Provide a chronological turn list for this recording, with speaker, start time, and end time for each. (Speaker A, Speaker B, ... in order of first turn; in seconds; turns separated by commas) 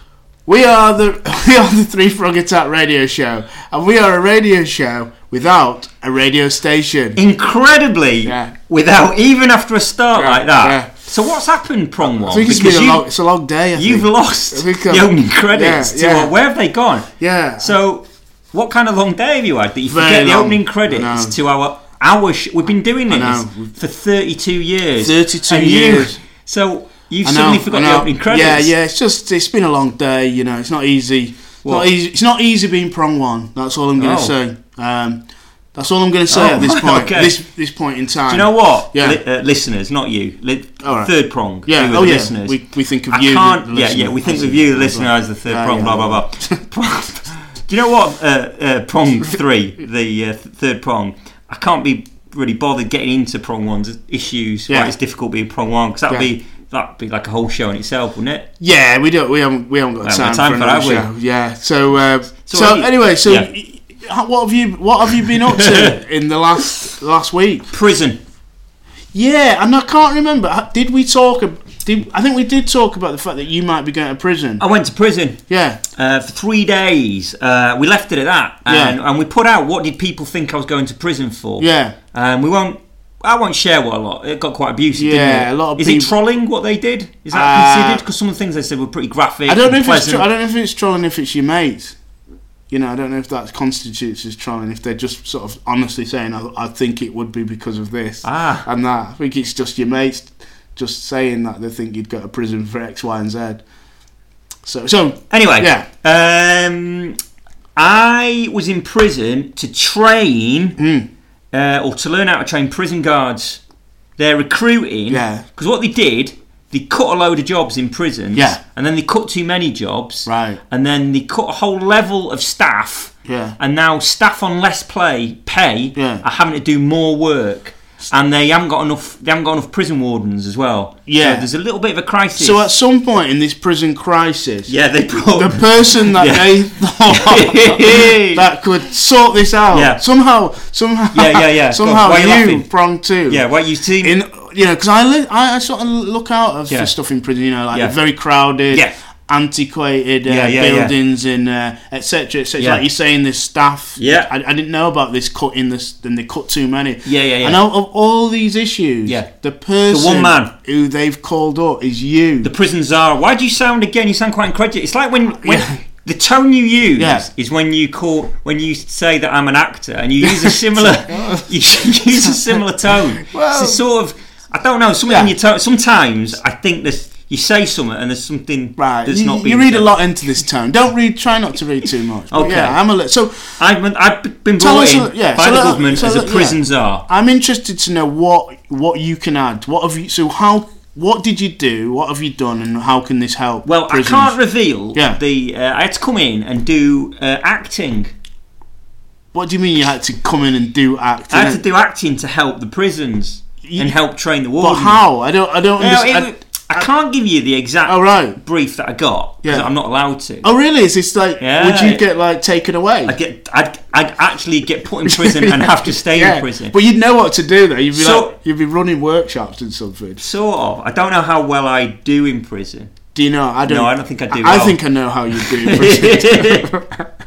Speaker A: 0.5-7.2, Speaker B: 7.2-13.1, Speaker A: 8.2-8.6, Speaker A: 10.1-10.9, Speaker A: 12.0-16.3, Speaker B: 13.7-17.1, Speaker A: 17.2-17.7, Speaker B: 17.6-28.7, Speaker A: 19.9-21.4, Speaker A: 23.1-23.7, Speaker A: 25.0-26.2, Speaker A: 27.2-35.2, Speaker B: 34.0-34.4, Speaker A: 35.8-39.2, Speaker B: 36.3-37.4, Speaker B: 38.3-42.6, Speaker A: 40.8-41.1, Speaker A: 41.6-46.6, Speaker B: 43.1-58.5, Speaker A: 58.6-67.7, Speaker B: 60.0-61.1, Speaker B: 62.5-63.5, Speaker B: 65.1-66.0, Speaker B: 67.7-68.2, Speaker A: 69.1-74.6, Speaker B: 74.6-75.4, Speaker A: 75.5-75.8, Speaker B: 76.0-90.3, Speaker A: 78.7-79.0, Speaker A: 81.6-81.9, Speaker A: 84.9-86.1, Speaker A: 87.3-88.0, Speaker A: 89.5-92.0, Speaker A: 92.7-103.6, Speaker B: 98.2-98.6, Speaker A: 104.6-105.8, Speaker B: 105.3-107.2, Speaker B: 107.8-110.8, Speaker A: 110.8-111.1, Speaker B: 111.5-113.6, Speaker B: 114.2-132.7, Speaker A: 115.1-115.4, Speaker A: 118.3-118.6, Speaker A: 120.2-120.6, Speaker A: 123.2-123.5, Speaker A: 125.9-126.2, Speaker A: 131.1-131.5, Speaker A: 132.3-134.7, Speaker B: 134.7-138.4, Speaker A: 135.3-143.4, Speaker B: 139.7-140.0, Speaker B: 141.1-142.7, Speaker B: 143.3-144.1, Speaker A: 144.0-162.5, Speaker B: 148.7-148.9, Speaker B: 150.2-150.9, Speaker B: 152.6-152.8, Speaker B: 154.0-154.3, Speaker B: 157.0-157.6, Speaker B: 159.9-160.5, Speaker B: 162.4-179.9, Speaker A: 165.4-165.7, Speaker A: 167.0-167.2, Speaker A: 170.2-171.5, Speaker A: 172.1-172.6, Speaker A: 173.2-173.8, Speaker A: 178.8-183.6, Speaker B: 182.3-182.8, Speaker B: 183.6-187.0, Speaker A: 184.6-194.3, Speaker B: 193.6-198.1, Speaker A: 194.9-195.2, Speaker A: 199.3-201.6, Speaker B: 201.3-205.0, Speaker A: 203.6-203.9, Speaker A: 204.6-206.9, Speaker B: 205.8-210.5, Speaker A: 207.8-208.4, Speaker A: 210.4-213.1, Speaker B: 211.4-212.0, Speaker B: 213.1-216.7, Speaker A: 215.1-220.2, Speaker B: 217.9-218.3, Speaker B: 220.2-222.9, Speaker A: 223.1-227.1, Speaker B: 223.7-224.8, Speaker B: 225.3-226.7